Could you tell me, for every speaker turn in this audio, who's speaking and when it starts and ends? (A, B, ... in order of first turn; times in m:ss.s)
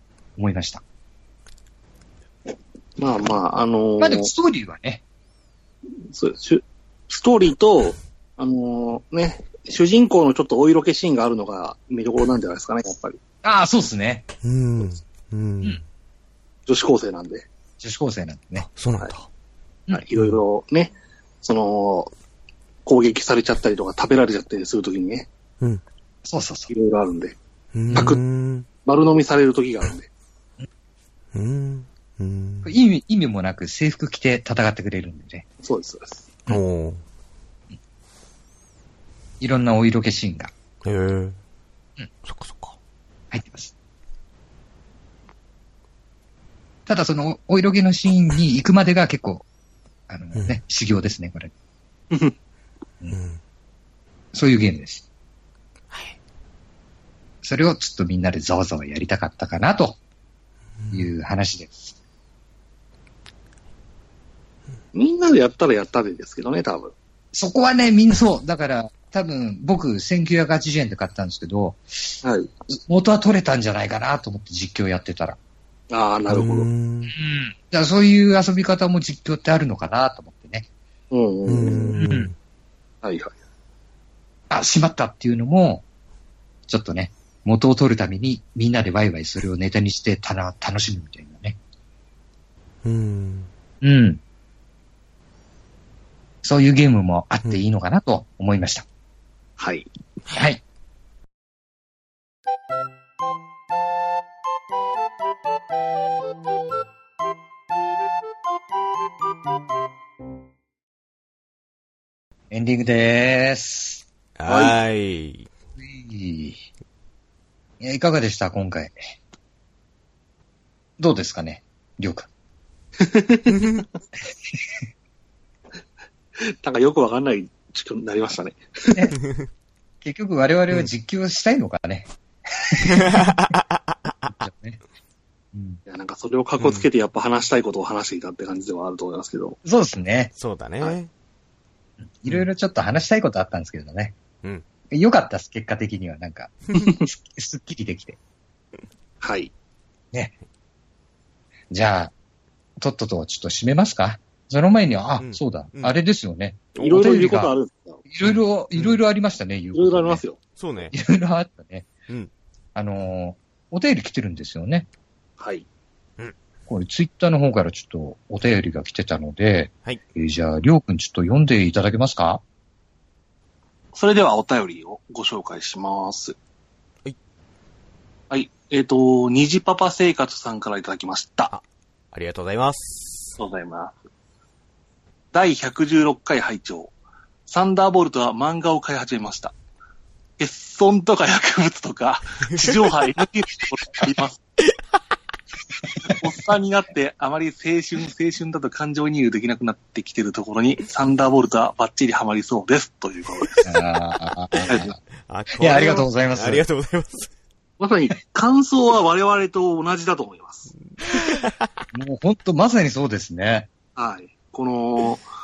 0:00.4-0:00.8 A
0:03.0-0:04.3 B
0:04.0-0:05.0 A
0:06.0-0:13.2 B
0:13.4-0:14.3 A
0:14.4-0:15.8 C
0:16.7-0:17.5 B
0:17.8-0:18.7 A
0:18.6-0:19.3 C
0:19.9-0:22.1 B
0:22.9-0:25.3 B
0:26.2-0:26.7 A
0:26.7-0:27.4 B
0:27.7-0:28.7 C
0:27.9-0:28.2 B
0:28.8-0:30.1 B
0:31.3-0:32.7 C
0:32.6-0:35.4 A
0:35.6-0:36.3 B
0:36.5-0:37.0 C
0:39.4-0:40.5 A
0:40.8-0:41.4 C
0:42.2-0:42.8 C
0:43.3-0:43.7 A
0:46.9-0:49.4 A
0:50.1-0:51.5 A
0:53.1-0:53.4 C
0:54.3-0:55.1 A
0:57.4-1:00.0 A
1:00.9-1:01.9 A
1:04.9-1:06.9 B
1:07.3-1:12.2 A
1:12.2-1:12.5 B
1:12.9-1:15.4 A
1:15.9-1:16.7 B
1:16.3-1:17.1 C
1:17.1-1:20.7 A
1:21.1-1:22.0 B
1:21.4-1:22.3 C
1:22.0-1:22.3 A
1:23.0-1:23.4 B
1:24.5-1:25.8 A
1:26.7-1:31.6 A
1:32.8-1:33.5 C
1:33.8-1:34.2 A
1:36.4-1:38.8 A
1:39.6-1:39.9 B
1:40.3-1:40.6 A
1:52.5-1:54.0 A
1:54.4-1:55.5 C
1:54.5-1:54.8 B
1:55.8-1:56.6 A
1:57.8-1:59.0 A
2:01.0-2:02.3 A
2:03.0-2:03.6 B
2:03.6-2:03.8 C
2:06.4-2:09.0 B
2:09.2-2:09.5 C
2:10.0-2:13.2 A
2:12.8-2:14.3 C
2:14.4-2:14.8 A
2:15.5-2:15.8 A
2:15.9-2:19.6 B
2:16.6-2:16.9 C
2:19.6-2:20.3 A
2:20.4-2:21.1 C
2:22.2-2:24.2 A
2:24.9-2:28.2 A
2:26.7-2:27.0 B
2:29.2-2:29.5 B
2:31.7-2:32.1 A
2:32.8-2:37.5 A
2:35.2-2:36.0 C
2:36.8-2:38.0 B
2:38.1-2:40.2 A
2:38.2-2:39.0 C
2:39.7-2:40.4 B
2:40.6-2:41.0 C
2:40.9-2:41.9 A
2:42.7-2:44.9 A
2:45.4-2:45.7 B
2:46.7-2:52.4 A
2:53.9-2:56.4 B
2:58.3-3:01.5 B
3:01.5-3:03.4 C
3:03.4-3:04.0 B
3:05.3-3:06.9 B
3:07.5-3:09.5 B
3:10.4-3:14.4 B
3:16.1-3:23.6 B
3:23.6-3:25.0 A
3:24.5-3:27.3 C
3:25.6-3:26.6 A
3:27.8-3:30.7 B
3:30.9-3:31.8 C
3:31.9-3:33.7 A
3:34.0-3:35.2 B